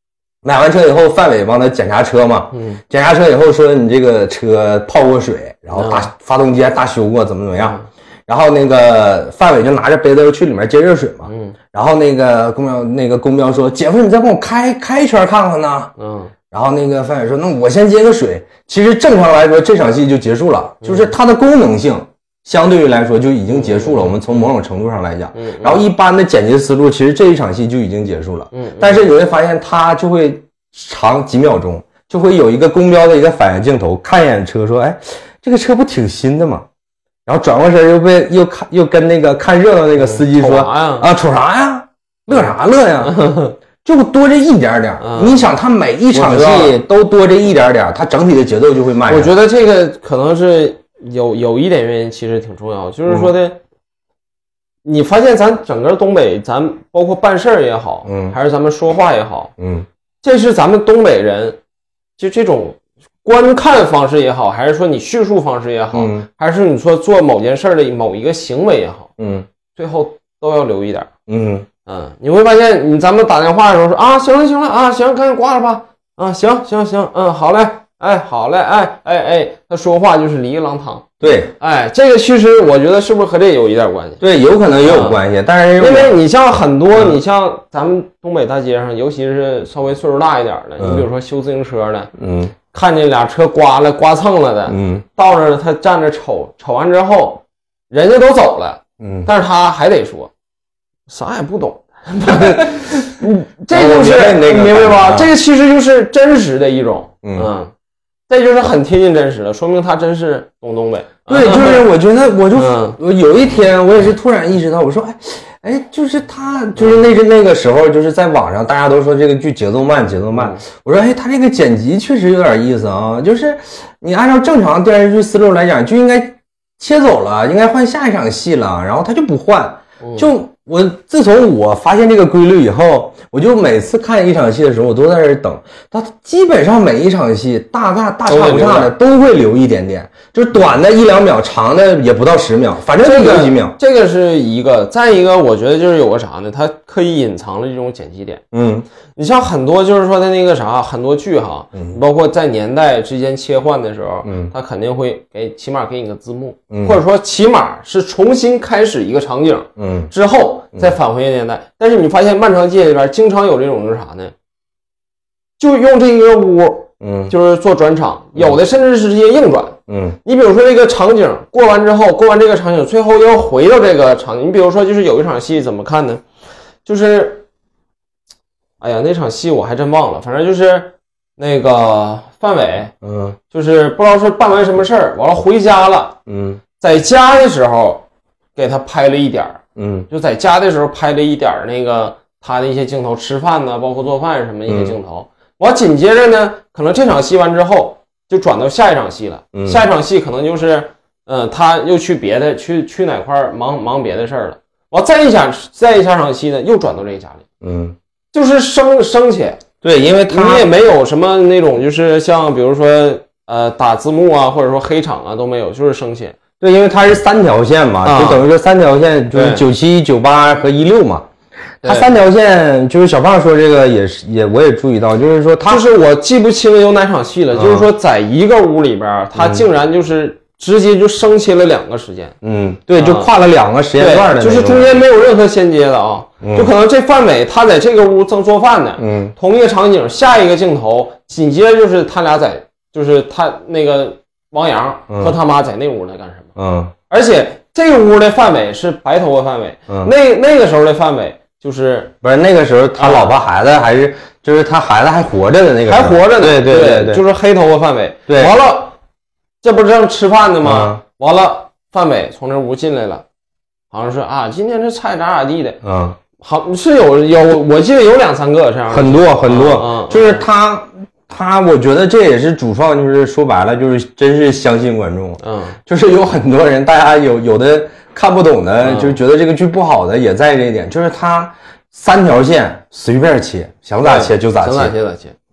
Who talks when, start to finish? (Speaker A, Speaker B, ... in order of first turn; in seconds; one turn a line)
Speaker A: 0.4-15.9
Speaker B: 2.5-2.8
Speaker B: 5.7-6.1
Speaker B: 7.6-7.8
Speaker B: 11.2-11.6
Speaker B: 16.0-16.3
Speaker A: 16.5-36.6
Speaker B: 20.8-21.1
Speaker B: 23.5-24.4
Speaker B: 25.3-25.8
Speaker B: 28.5-29.0
Speaker A: 37.2-49.3
Speaker B: 40.0-41.1
Speaker B: 43.0-43.5
Speaker B: 45.0-45.5
Speaker B: 46.1-46.8
Speaker B: 49.1-53.6
Speaker B: 54.8-59.5
Speaker A: 58.0-58.4
Speaker A: 59.6-59.9
Speaker B: 60.2-61.6
Speaker B: 62.2-69.1
Speaker A: 65.9-66.3
Speaker A: 69.2-69.5
Speaker B: 69.7-71.1
Speaker A: 71.3-71.7
Speaker B: 71.8-84.2
Speaker A: 81.2-81.5
Speaker A: 84.2-86.1
Speaker B: 84.8-85.2
Speaker B: 85.8-92.1
Speaker A: 90.8-91.0
Speaker A: 92.2-92.5
Speaker B: 92.7-100.3
Speaker A: 94.7-95.0
Speaker A: 99.0-99.3
Speaker B: 101.1-107.7
Speaker A: 102.3-102.9
Speaker A: 103.7-105.3
Speaker A: 107.2-107.5
Speaker B: 108.3-111.9
Speaker A: 111.3-143.8
Speaker B: 112.5-113.0
Speaker B: 116.8-117.1
Speaker B: 120.3-120.6
Speaker B: 130.0-130.3
Speaker B: 138.3-138.9
Speaker B: 143.0-148.4
Speaker A: 148.5-148.8
Speaker B: 149.1-164.3
Speaker A: 154.2-154.5
Speaker A: 156.7-157.0
Speaker A: 159.8-160.1
Speaker B: 165.6-176.2
Speaker A: 167.0-167.3
Speaker A: 169.9-170.2
Speaker B: 176.8-177.4
Speaker B: 178.8-182.9
Speaker A: 183.0-183.4
Speaker B: 183.5-186.2
Speaker A: 186.3-186.6
Speaker B: 186.8-207.4
Speaker A: 189.8-190.1
Speaker A: 194.7-194.9
Speaker A: 199.5-199.8
Speaker A: 207.6-207.9
Speaker B: 208.3-209.6
Speaker A: 209.8-210.7
Speaker B: 210.3-216.3
Speaker A: 216.6-221.3
Speaker B: 218.0-218.4
Speaker B: 219.3-219.6
Speaker B: 221.8-222.1
Speaker A: 221.8-225.8
Speaker B: 225.7-232.3
Speaker A: 227.5-227.9
Speaker A: 229.3-229.7
Speaker A: 232.4-235.0
Speaker B: 233.0-233.3
Speaker B: 234.0-246.5
Speaker A: 236.4-236.7
Speaker A: 239.0-239.3
Speaker A: 245.1-245.3
Speaker A: 246.6-246.9
Speaker B: 247.1-252.1
Speaker A: 252.2-257.2
Speaker B: 253.0-253.3
Speaker B: 255.8-258.9
Speaker A: 258.3-258.5
Speaker B: 259.6-263.2
Speaker A: 260.6-261.0
Speaker B: 263.9-265.8
Speaker A: 265.8-266.2
Speaker B: 266.4-270.4
Speaker A: 268.9-284.9
Speaker B: 275.4-275.8
Speaker B: 278.8-279.2
Speaker B: 284.0-285.3